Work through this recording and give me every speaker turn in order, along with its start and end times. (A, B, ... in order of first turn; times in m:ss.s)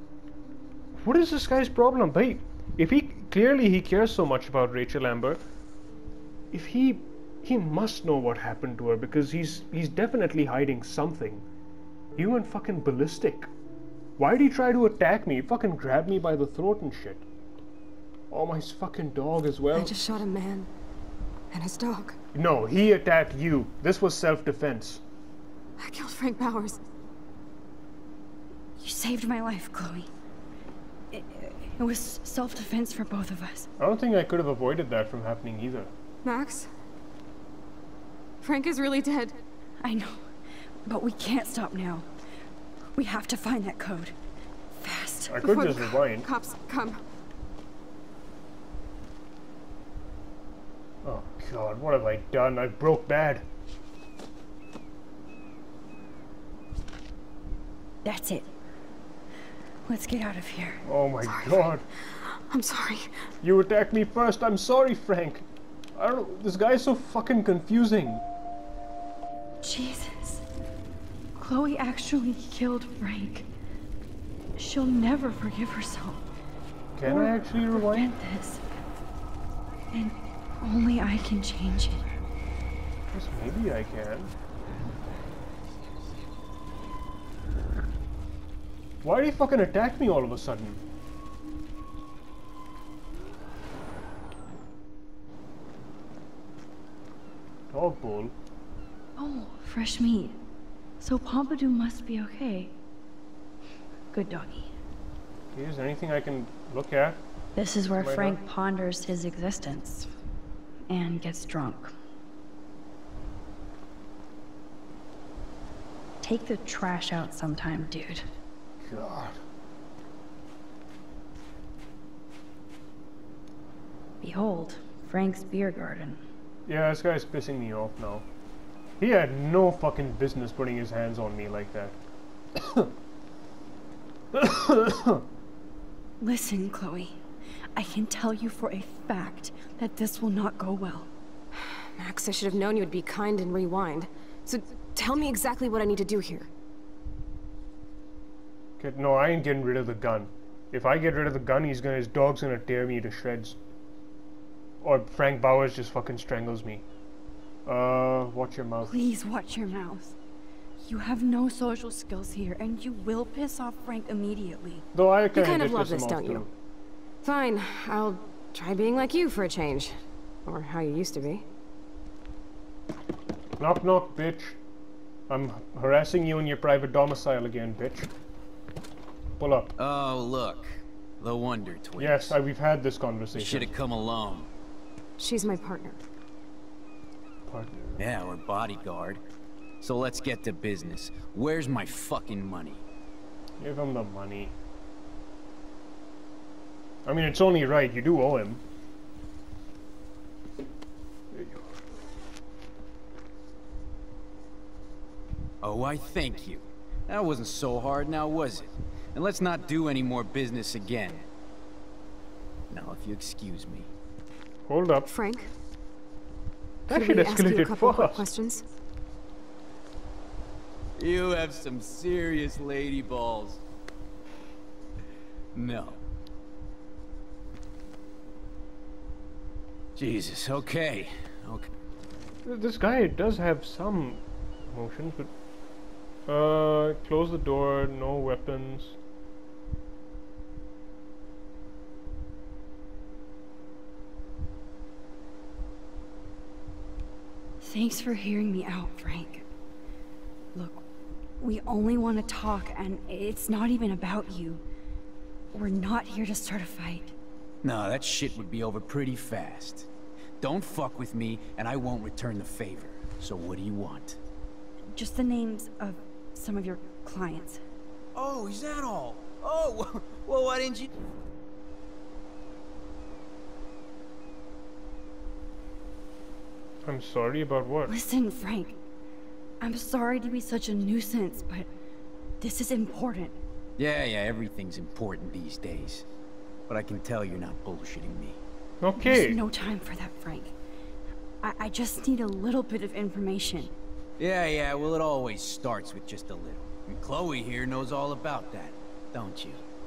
0:01.0-0:05.4 A
0:06.5-0:11.4 A
0:12.2-0:13.5 A
0:14.2-0:17.3 A
0:18.3-0:20.0 A
0:19.7-0:20.7 B
0:21.5-0:22.2 B
0:22.3-0:25.0 A
0:25.8-0:26.8 B
0:28.8-0:30.1 C
0:31.1-0:33.7 C
0:33.8-0:35.9 A
0:36.2-0:36.7 B
0:38.4-0:39.4 B
0:39.8-0:40.3 C
0:40.8-0:42.1 C
0:42.9-0:44.2 C
0:44.8-0:45.4 C
0:45.3-0:46.3 A
0:45.4-0:47.0 B
0:51.0-0:53.4 A
0:58.0-0:58.5 C
0:59.8-1:01.7 C
1:00.8-1:01.8 A
1:02.4-1:03.1 B
1:03.4-1:08.2 A
1:09.6-1:10.4 C
1:11.4-1:13.5 C
1:14.6-1:16.2 C
1:17.0-1:18.2 A
1:17.0-1:18.6 C
1:19.9-1:22.1 C
1:23.1-1:24.3 A
1:29.0-1:30.8 A
1:37.7-1:38.3 A
1:39.2-1:40.4 C
1:41.0-1:42.8 C
1:44.1-1:44.7 C
1:45.5-1:47.2 A
1:47.6-1:50.1 C
1:48.0-1:48.4 A
1:50.9-1:51.9 C
1:56.2-1:58.2 C
1:58.8-1:59.4 A
2:04.2-2:06.2 C
2:06.7-2:08.2 A
2:09.0-2:12.0 A
2:12.6-2:12.9 A
2:14.3-2:15.2 A
2:16.2-2:17.2 C
2:17.8-2:21.1 C
2:22.0-2:26.5 B
2:28.8-2:33.6 A
2:34.8-2:36.8 A
2:37.7-2:39.0 A
2:38.9-2:40.2 C
2:40.8-2:44.9 C
2:44.9-2:46.5 A
2:45.3-2:46.5 B
2:47.2-2:51.4 B
2:53.6-2:54.6 A
2:55.3-2:58.1 A
2:59.4-2:59.7 A
2:59.8-3:02.4 D
3:02.0-3:03.7 A
3:03.3-3:04.5 D
3:05.2-3:06.0 B
3:07.5-3:08.0 A
3:08.0-3:09.2 D
3:09.8-3:12.8 D
3:13.6-3:14.5 A
3:17.0-3:18.6 A
3:21.3-3:21.7 A
3:25.6-3:31.2 D
3:32.7-3:33.9 D
3:34.7-3:35.1 A
3:35.1-3:35.5 B
3:36.9-3:38.3 A
3:36.9-3:38.6 B
3:41.0-3:43.6 D
3:45.5-3:46.0 D
3:50.0-3:51.7 D
3:52.4-3:55.3 A
3:56.3-3:59.0 A
4:07.6-4:09.5 C
4:10.5-4:10.8 C
4:11.4-4:14.6 C
4:15.5-4:17.2 C
4:17.6-4:19.9 D
4:20.4-4:24.2 D
4:24.9-4:27.6 C
4:28.1-4:30.9 D
4:36.8-4:37.9 A
4:37.9-4:38.8 C
4:39.6-4:41.7 C
4:42.4-4:43.4 C
4:43.8-4:46.1 D
4:46.7-4:48.4 D
4:48.8-4:49.4 A
4:49.0-4:50.5 C
4:51.4-4:53.7 C
4:54.2-4:59.6 D